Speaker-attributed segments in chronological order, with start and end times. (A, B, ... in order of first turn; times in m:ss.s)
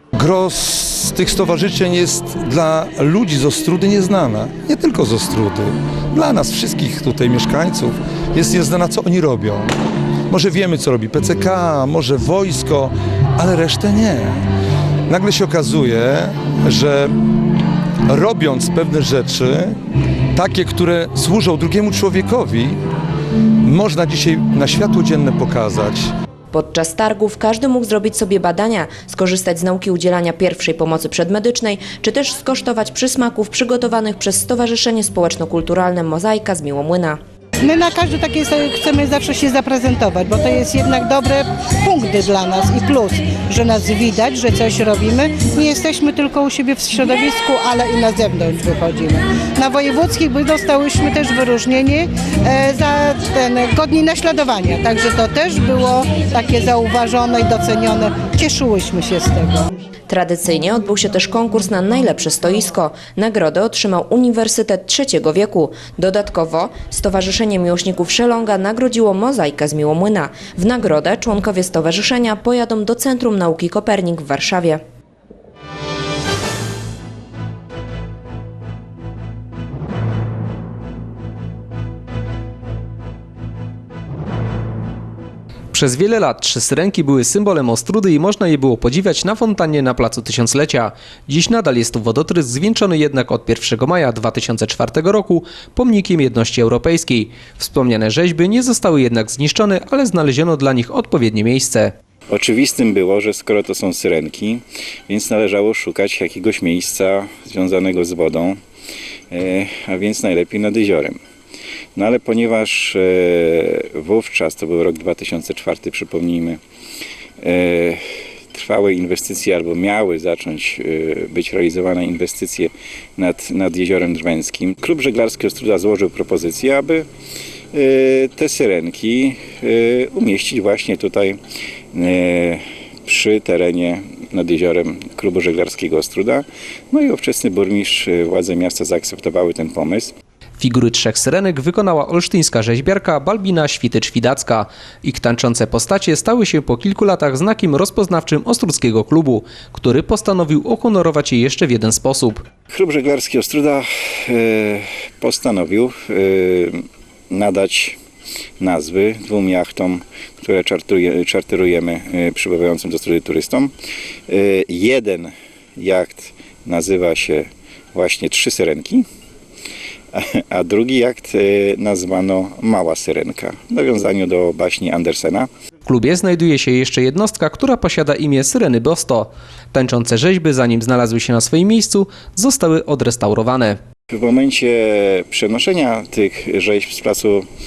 0:00.2-0:09.7 A
0:10.3-0:14.4 A
0:15.1-0:17.1 A
0:18.1-0:19.7 A
0:20.3-0:22.8 A
0:23.6-0:26.1 A
0:26.5-0:37.2 B
0:37.6-0:59.6 C
1:00.1-1:14.8 B
1:25.7-1:41.9 D
1:42.3-1:48.6 E
1:49.3-1:51.2 E
1:52.0-1:56.6 E
1:57.4-1:58.0 E
1:58.5-2:07.1 E
2:07.7-2:11.4 E
2:11.9-2:20.1 E
2:20.6-2:32.4 D
2:32.7-2:36.8 E
2:37.3-2:38.0 E
2:38.6-2:43.7 E
2:44.3-2:49.0 E
2:50.1-2:55.5 E
2:55.8-3:03.8 D
3:04.1-3:07.4 E